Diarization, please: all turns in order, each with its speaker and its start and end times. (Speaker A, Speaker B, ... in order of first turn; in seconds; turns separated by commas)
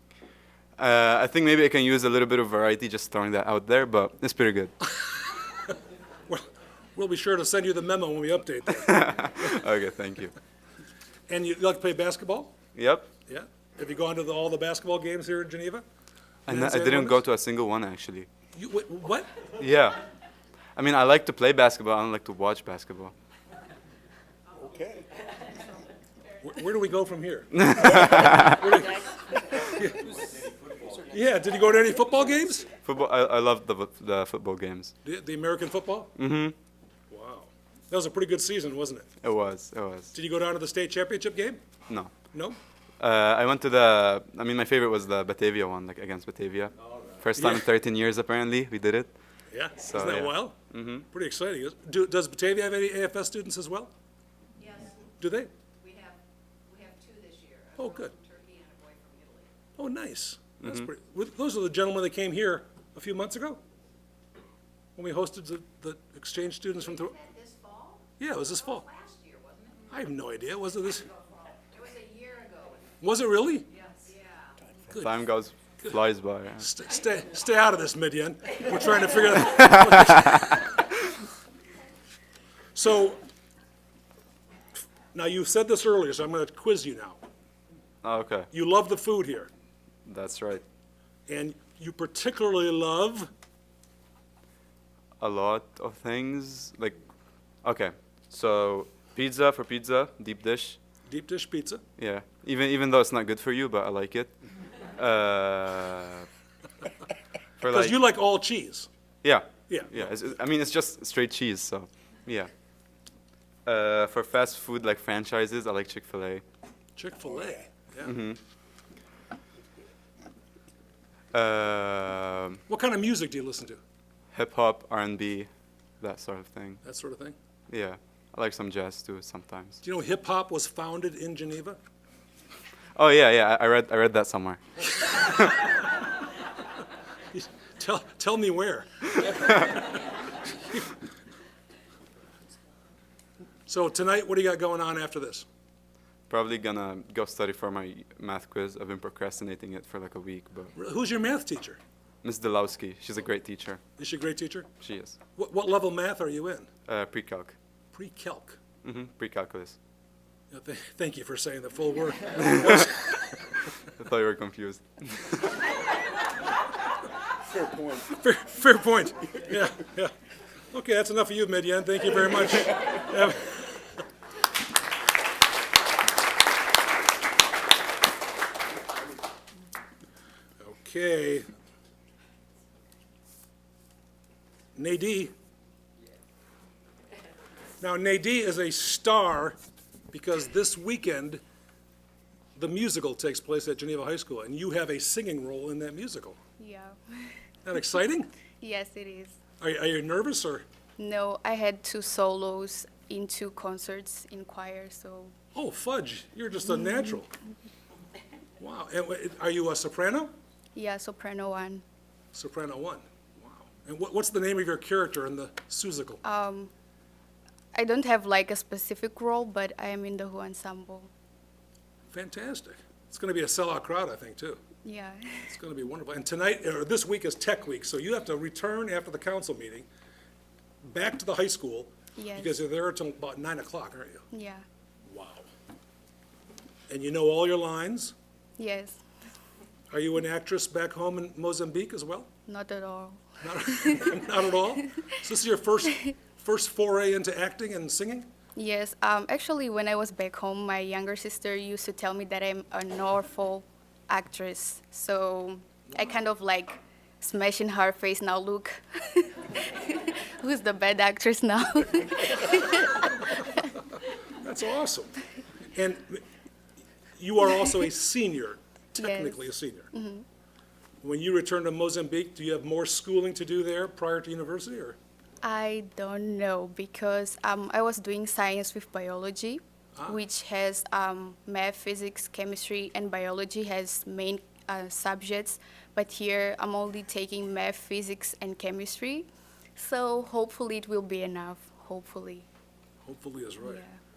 Speaker A: 0.8-4.7, Speaker B: 5.0-5.7, Speaker B: 6.3-9.0, Speaker A: 8.8-10.3, Speaker B: 11.3-12.5, Speaker A: 12.8-13.1, Speaker B: 13.3-15.8, Speaker B: 16.5-17.2, Speaker A: 16.5-18.3, Speaker B: 18.5-19.4, Speaker A: 19.6-20.0, Speaker A: 20.8-23.1, Speaker B: 26.4-30.1, Speaker A: 27.6-28.6, Speaker B: 31.1-32.7, Speaker A: 32.8-35.0, Speaker B: 35.0-36.1, Speaker A: 36.2-36.5, Speaker B: 37.1-39.1, Speaker A: 39.2-40.1, Speaker B: 40.1-41.6, Speaker B: 42.3-42.6, Speaker A: 43.0-49.1, Speaker B: 47.4-47.7, Speaker B: 49.5-50.6, Speaker A: 49.8-51.0, Speaker B: 51.1-53.9, Speaker C: 54.6-55.0, Speaker B: 55.2-55.5, Speaker C: 55.8-59.5, Speaker B: 57.8-58.1, Speaker B: 59.8-63.6, Speaker A: 60.6-60.9, Speaker B: 65.0-67.2, Speaker C: 67.1-68.1, Speaker B: 68.2-68.9, Speaker C: 68.8-69.9, Speaker B: 69.9-71.1, Speaker C: 71.7-72.9, Speaker B: 73.0-73.7, Speaker C: 73.7-74.6, Speaker A: 74.9-76.7, Speaker B: 76.6-80.7, Speaker B: 82.7-83.2, Speaker B: 85.1-87.2, Speaker A: 88.0-88.5, Speaker B: 88.5-89.5, Speaker A: 90.1-90.6, Speaker B: 91.3-93.3, Speaker A: 95.2-97.0, Speaker A: 97.6-100.8, Speaker B: 101.1-101.8, Speaker A: 102.0-104.4, Speaker A: 105.0-106.3, Speaker A: 107.6-108.0, Speaker B: 107.7-108.9, Speaker A: 109.2-112.5, Speaker B: 109.7-110.1, Speaker A: 113.7-116.4, Speaker B: 117.0-118.1, Speaker A: 118.0-118.4, Speaker A: 121.3-122.6, Speaker B: 122.7-123.8, Speaker A: 124.3-125.5, Speaker A: 126.0-126.8, Speaker B: 126.8-127.3, Speaker A: 127.7-129.8, Speaker B: 129.8-131.8, Speaker A: 133.0-135.8, Speaker B: 137.3-140.1, Speaker B: 143.7-145.4, Speaker A: 146.3-150.7, Speaker B: 150.8-151.8, Speaker A: 152.2-153.8, Speaker B: 154.0-154.7, Speaker A: 154.8-155.2, Speaker B: 155.4-156.7, Speaker A: 156.9-157.6, Speaker B: 157.9-158.6, Speaker A: 158.8-159.8, Speaker B: 160.5-163.0, Speaker A: 162.5-162.9, Speaker A: 163.9-165.5, Speaker B: 167.6-170.1, Speaker B: 170.7-173.8, Speaker B: 180.6-181.5, Speaker B: 184.8-185.3, Speaker B: 187.8-189.6, Speaker B: 190.1-191.4, Speaker B: 192.6-196.4, Speaker D: 196.6-197.4, Speaker B: 197.7-198.3, Speaker D: 198.6-199.4, Speaker B: 199.6-200.7, Speaker D: 201.0-205.3, Speaker B: 205.5-207.3, Speaker B: 208.6-210.3, Speaker D: 210.7-211.8, Speaker B: 212.3-216.2, Speaker D: 216.2-216.7, Speaker D: 217.7-221.1, Speaker B: 222.1-224.6, Speaker D: 224.8-225.5, Speaker B: 225.5-229.9, Speaker B: 230.8-234.3, Speaker D: 232.2-232.6, Speaker D: 234.3-234.7, Speaker B: 235.1-235.5, Speaker B: 236.9-238.2, Speaker D: 238.6-239.0, Speaker B: 239.9-242.3, Speaker D: 242.5-244.1, Speaker B: 243.4-248.3, Speaker D: 248.6-263.6, Speaker B: 264.4-265.2, Speaker B: 265.7-266.2, Speaker B: 267.2-269.9, Speaker D: 269.0-270.2, Speaker B: 271.0-275.0, Speaker D: 275.4-292.5, Speaker B: 293.0-293.8, Speaker D: 293.6-294.0